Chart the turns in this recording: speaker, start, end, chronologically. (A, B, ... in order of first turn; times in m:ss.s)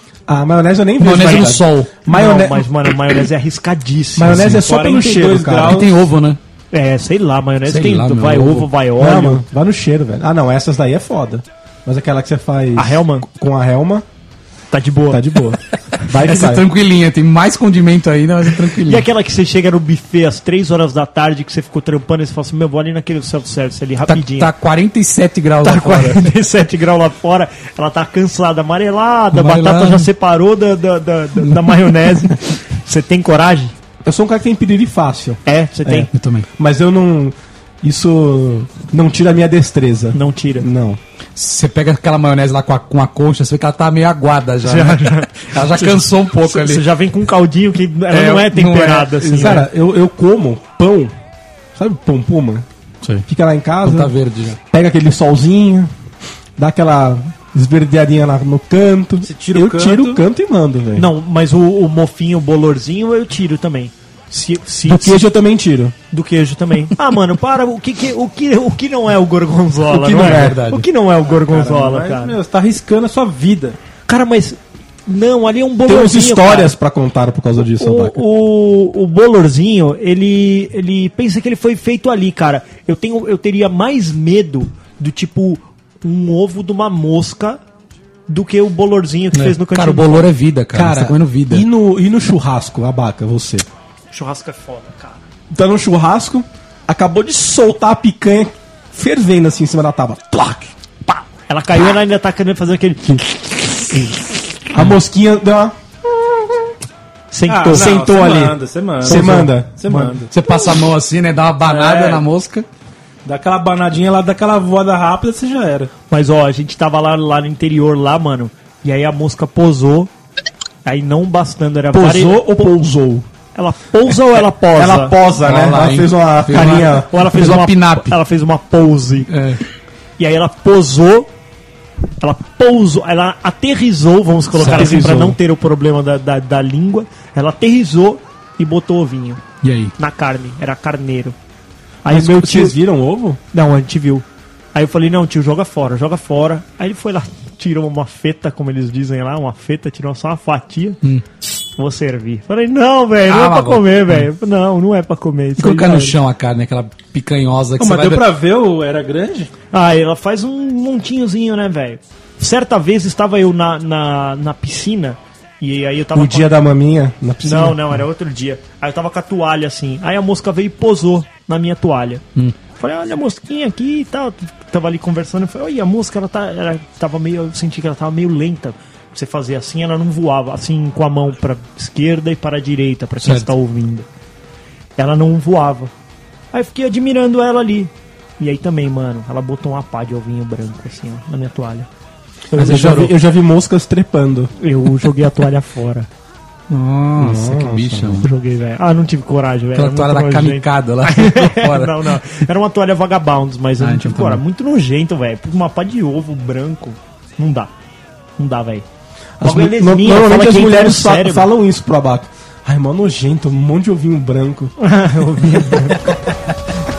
0:00.3-0:02.7 A
0:01.0-0:01.9 B
0:01.1-0:04.6 C
0:04.2-0:05.9 A
0:04.3-0:04.6 B
0:04.5-0:06.0 D
0:05.6-0:06.4 B
0:06.7-0:09.4 C
0:07.6-0:08.7 B
0:09.0-0:14.0 A
0:12.8-0:13.2 C
0:14.7-0:15.2 C
0:15.1-0:16.7 A
0:16.2-0:19.1 B
0:18.8-0:24.5 C
0:24.1-0:26.2 B
0:25.6-0:33.8 C
0:29.3-0:30.1 B
0:34.0-0:41.0 A
0:35.4-0:36.1 C
0:36.1-0:36.5 B
0:40.1-0:40.7 C
0:41.4-0:46.8 B
0:44.6-0:49.6 C
0:48.1-0:49.7 B
0:49.3-0:51.1 A
0:51.8-0:52.7 A
0:53.3-0:54.1 A
0:53.8-0:54.6 B
0:54.7-0:55.9 A
0:56.6-1:01.1 A
0:59.2-1:00.2 D
1:01.0-1:05.2 C
1:04.8-1:06.0 A
1:06.1-1:12.4 C
1:09.9-1:10.6 A
1:10.1-1:10.9 B
1:11.4-1:13.8 D
1:14.1-1:16.7 C
1:15.8-1:18.2 A
1:17.7-1:27.6 C
1:28.3-1:30.3 C
1:29.3-1:31.7 B
1:30.7-1:33.7 A
1:34.1-1:35.2 C
1:35.5-1:40.7 A
1:41.1-1:43.2 C
1:43.9-1:44.2 C
1:44.7-1:45.8 A
1:47.3-1:47.9 C
1:47.5-1:50.3 D
1:47.7-1:50.2 A
1:49.1-1:49.5 C
1:50.3-1:52.7 B
1:51.6-1:52.2 D
1:53.2-1:55.9 D
1:56.1-2:00.1 C
2:00.8-2:02.7 C
2:01.9-2:03.3 A
2:03.6-2:05.2 C
2:04.7-2:07.2 A
2:05.4-2:08.2 B
2:06.5-2:09.3 C
2:09.3-2:09.6 B
2:10.2-2:11.3 C
2:12.2-2:19.4 C
2:14.6-2:15.1 B
2:14.6-2:15.4 A
2:19.6-2:19.9 B
2:20.0-2:21.4 C
2:22.0-2:22.8 C
2:22.1-2:23.4 A
2:23.5-2:31.0 C
2:31.8-2:36.2 C
2:33.3-2:34.3 B
2:35.6-2:38.3 B
2:37.8-2:39.5 D
2:39.7-2:46.6 C
2:46.1-2:47.8 A
2:47.4-2:52.2 C
2:52.8-3:04.1 C
3:03.2-3:03.5 B
3:05.0-3:05.9 C
3:06.5-3:11.9 C
3:12.5-3:14.5 A
3:12.6-3:13.2 B
3:14.6-3:16.1 C
3:16.7-3:18.3 B
3:17.2-3:18.3 A
3:18.2-3:27.7 C
3:19.8-3:22.1 B
3:23.8-3:24.4 B
3:28.4-3:28.8 C
3:29.4-3:34.7 A
3:29.4-3:31.5 C
3:34.8-3:36.2 C